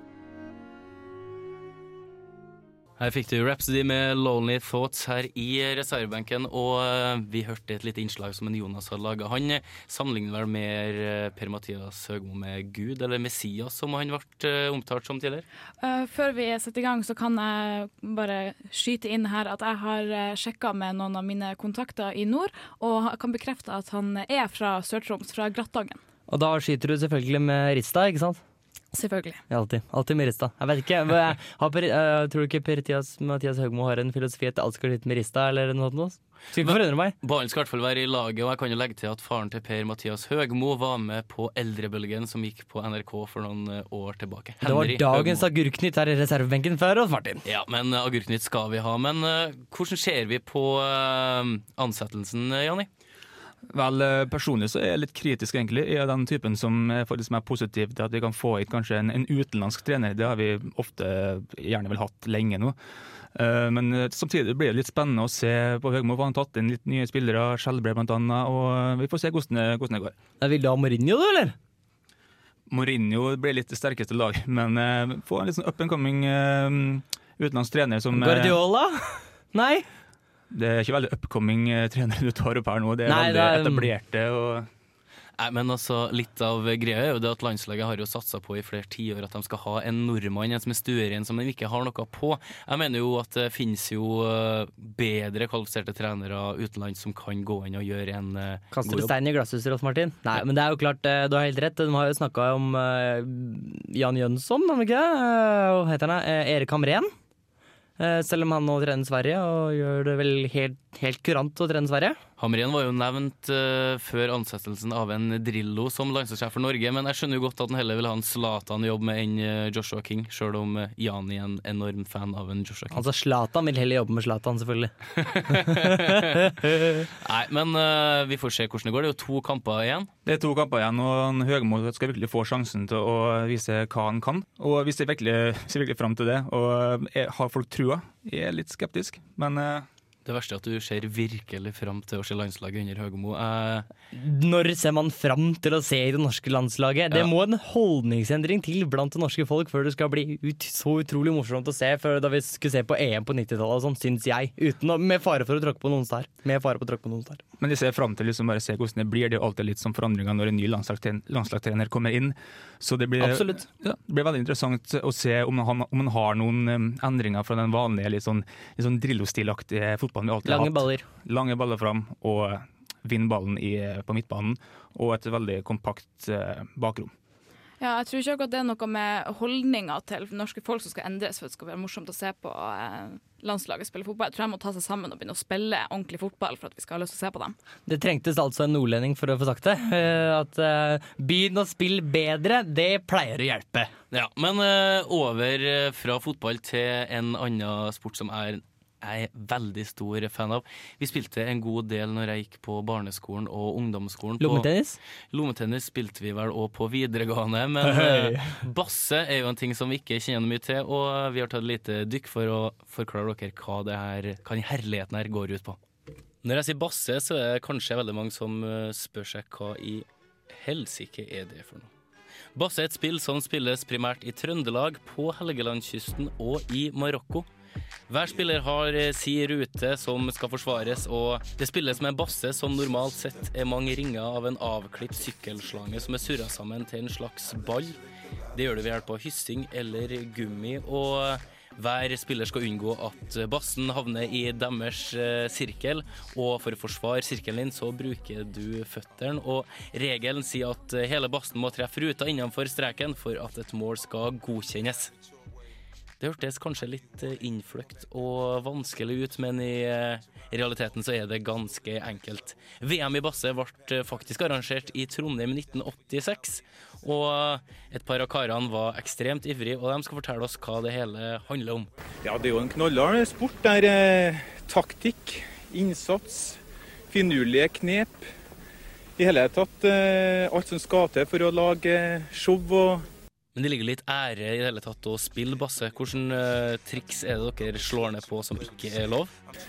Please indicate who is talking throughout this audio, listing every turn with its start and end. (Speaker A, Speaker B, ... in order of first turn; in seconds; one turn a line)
Speaker A: 3.0-15.4
Speaker B: 15.8-26.0
Speaker C: 26.3-28.4
Speaker B: 28.9-29.4
Speaker C: 29.5-37.1
Speaker A: 36.6-45.5
Speaker C: 44.6-47.4
Speaker A: 47.4-52.9
Speaker D: 53.7-62.8
Speaker D: 63.3-70.1
Speaker C: 70.4-71.5
Speaker D: 72.7-78.6
Speaker C: 78.1-79.8
Speaker D: 80.5-84.7
Speaker C: 83.0-83.9
Speaker A: 85.4-99.1
Speaker C: 98.7-107.1
Speaker C: 108.0-112.2
Speaker A: 112.4-123.0
Speaker C: 122.9-124.9
Speaker A: 125.2-126.5
Speaker C: 125.7-127.0
Speaker A: 127.1-130.1
Speaker D: 130.2-139.9
Speaker A: 140.2-143.9
Speaker C: 144.1-157.4
Speaker D: 157.6-177.1
Speaker C: 163.2-163.6
Speaker C: 170.4-171.1
Speaker B: 177.8-187.5
Speaker C: 187.9-193.9
Speaker A: 194.1-204.7
Speaker C: 204.4-205.0
Speaker A: 205.3-215.8
Speaker C: 207.8-208.5
Speaker A: 216.4-221.9
Speaker A: 222.5-227.5
Speaker A: 228.1-238.0
Speaker A: 238.5-255.1
Speaker A: 256.2-271.9
Speaker E: 272.2-278.2
Speaker E: 279.2-283.1
Speaker A: 283.5-289.3